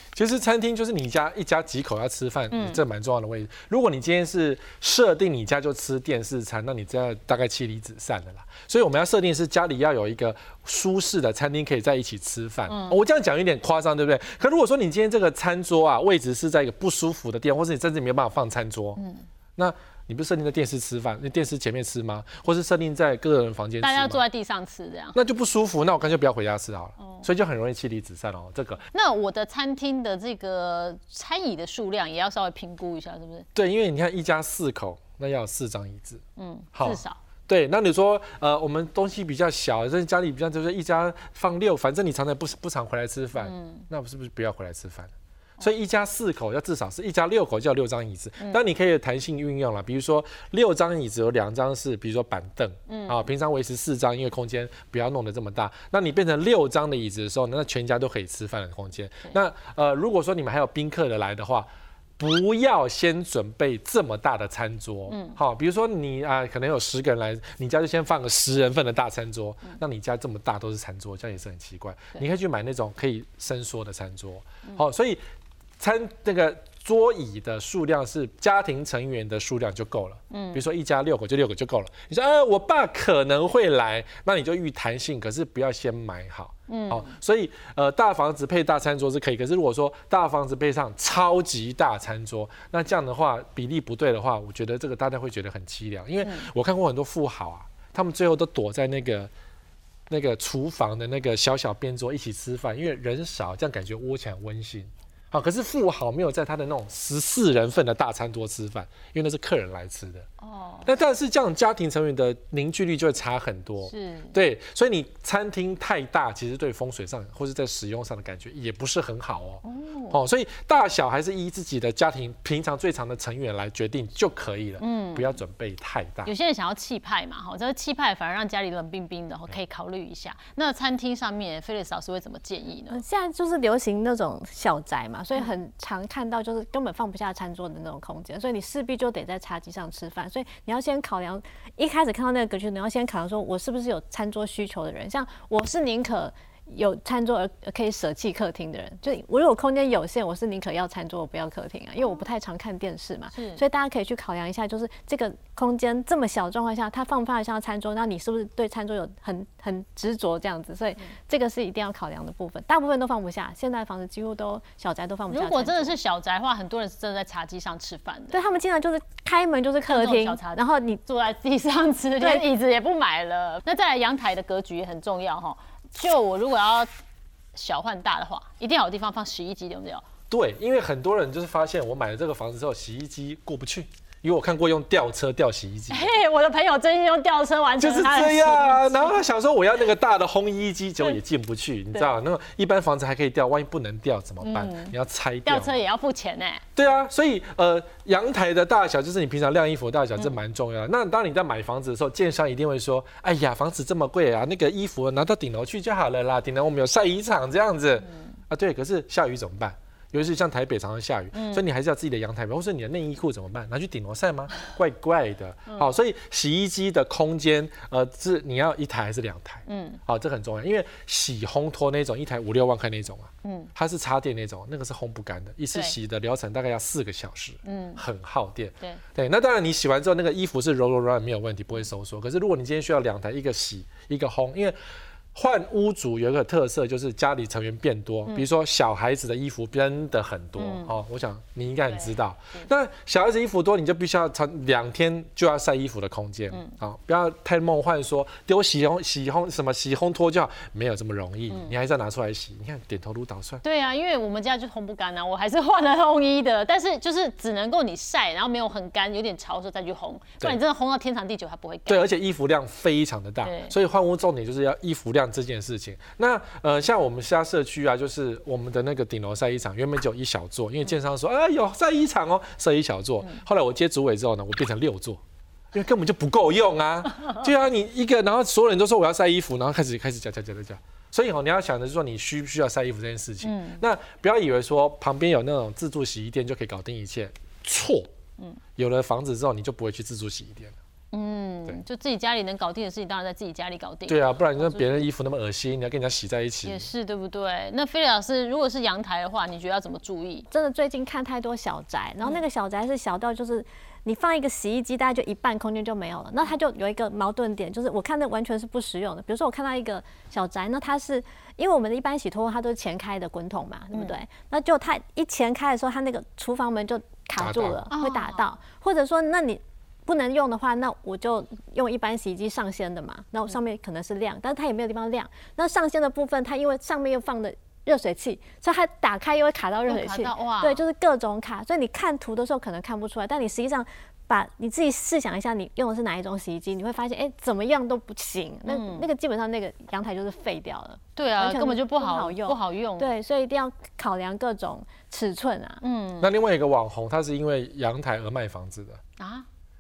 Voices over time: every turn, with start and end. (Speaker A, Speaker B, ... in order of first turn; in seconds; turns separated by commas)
Speaker A: 0.1-19.0, Speaker B: 2.5-2.8, Speaker B: 12.7-13.0, Speaker B: 19.0-19.2, Speaker A: 19.6-24.2, Speaker B: 23.8-25.2, Speaker A: 25.1-28.9, Speaker B: 27.0-27.3, Speaker B: 28.9-33.5, Speaker A: 33.5-36.2, Speaker B: 36.4-37.2, Speaker A: 36.8-61.7, Speaker B: 43.4-43.9, Speaker B: 52.9-53.3, Speaker A: 62.2-75.2, Speaker B: 65.1-65.4, Speaker A: 75.8-99.3, Speaker B: 80.3-80.6, Speaker B: 86.7-87.1, Speaker B: 96.2-96.5, Speaker A: 100.1-110.3, Speaker B: 110.4-110.9, Speaker A: 110.9-126.3, Speaker B: 113.9-114.3, Speaker B: 119.6-120.2, Speaker B: 124.8-125.4, Speaker B: 126.2-133.0, Speaker C: 132.9-165.9, Speaker B: 153.3-153.6, Speaker B: 165.3-168.4, Speaker C: 168.3-171.0, Speaker B: 169.9-176.9, Speaker C: 172.2-172.5, Speaker B: 177.5-180.1, Speaker A: 180.3-186.1, Speaker B: 185.9-189.2, Speaker A: 187.8-195.8, Speaker B: 194.4-196.7, Speaker A: 196.8-234.8, Speaker B: 211.3-211.6, Speaker B: 215.7-215.9, Speaker B: 219.7-220.0, Speaker B: 223.4-223.7, Speaker B: 227.7-228.0, Speaker A: 235.3-253.6, Speaker B: 240.6-240.9, Speaker B: 241.9-242.7, Speaker B: 246.5-246.8, Speaker B: 253.6-262.0, Speaker A: 261.9-275.2, Speaker B: 263.4-263.8, Speaker A: 275.7-288.1, Speaker B: 283.4-283.8, Speaker A: 288.8-290.8, Speaker B: 291.1-295.1, Speaker A: 294.1-296.9, Speaker B: 296.6-300.5, Speaker C: 300.5-345.8, Speaker A: 317.4-317.8, Speaker B: 317.9-318.4, Speaker B: 329.9-330.8, Speaker B: 338.7-339.1, Speaker B: 341.2-343.1, Speaker B: 345.8-346.3, Speaker A: 346.2-349.0, Speaker B: 349.2-349.5